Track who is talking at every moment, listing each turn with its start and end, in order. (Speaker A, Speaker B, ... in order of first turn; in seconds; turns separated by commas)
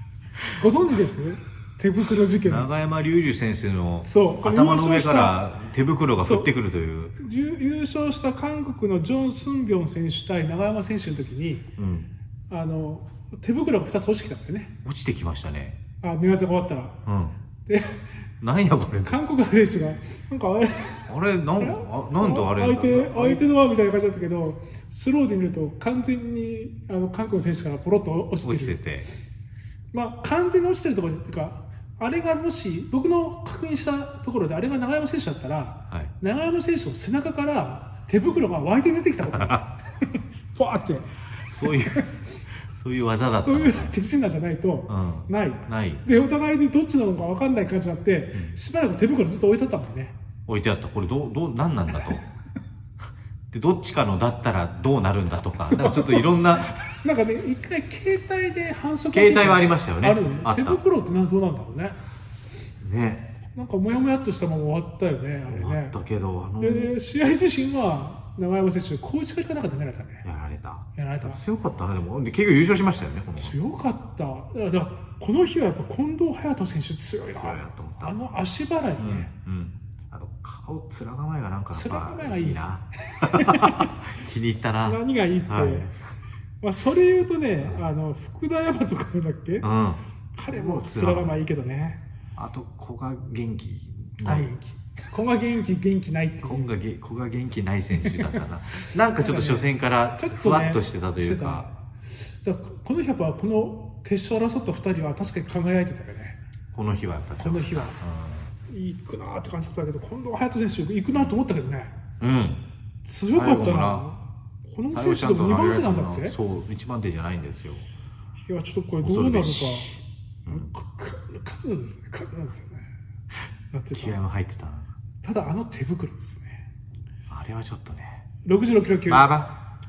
Speaker A: 0.5-2.7, Speaker B: 2.5-7.2, Speaker A: 4.0-5.4, Speaker A: 6.2-6.5, Speaker A: 7.2-11.7, Speaker B: 11.8-12.1, Speaker A: 12.5-14.7, Speaker B: 14.8-15.8, Speaker A: 16.0-17.0, Speaker B: 17.1-17.4, Speaker A: 17.7-18.0, Speaker B: 18.4-19.2, Speaker A: 19.0-28.8, Speaker B: 21.1-23.4, Speaker B: 28.4-29.1, Speaker A: 29.9-39.7, Speaker B: 39.3-39.6, Speaker A: 40.5-41.1, Speaker B: 41.5-42.0, Speaker A: 41.6-42.1, Speaker B: 42.7-44.0, Speaker A: 43.4-50.1, Speaker B: 44.9-46.0, Speaker B: 50.5-52.2, Speaker B: 53.5-56.8, Speaker A: 55.6-62.0, Speaker B: 59.1-60.8, Speaker B: 62.8-63.3, Speaker A: 63.5-66.0, Speaker B: 65.5-66.9, Speaker A: 66.6-70.3, Speaker B: 70.2-73.6, Speaker A: 71.0-71.4, Speaker A: 73.4-79.3, Speaker B: 77.3-78.2, Speaker B: 79.0-86.0, Speaker A: 81.7-84.0, Speaker A: 84.8-85.9, Speaker A: 86.6-89.7, Speaker B: 87.6-87.9, Speaker B: 89.6-91.4, Speaker A: 90.4-92.0, Speaker B: 92.4-94.5, Speaker A: 94.2-96.7, Speaker B: 96.4-101.7, Speaker A: 98.0-98.4, Speaker A: 99.2-106.4, Speaker B: 106.7-108.5, Speaker A: 107.4-108.0, Speaker A: 108.7-111.9, Speaker B: 112.2-112.6, Speaker A: 113.0-116.4, Speaker B: 113.3-114.1, Speaker B: 114.9-117.9, Speaker A: 118.5-120.0, Speaker B: 119.0-120.7, Speaker A: 120.5-122.9, Speaker A: 123.7-124.2, Speaker B: 123.9-124.9, Speaker A: 125.2-126.6, Speaker B: 127.3-128.2, Speaker A: 128.4-129.3, Speaker B: 129.1-129.5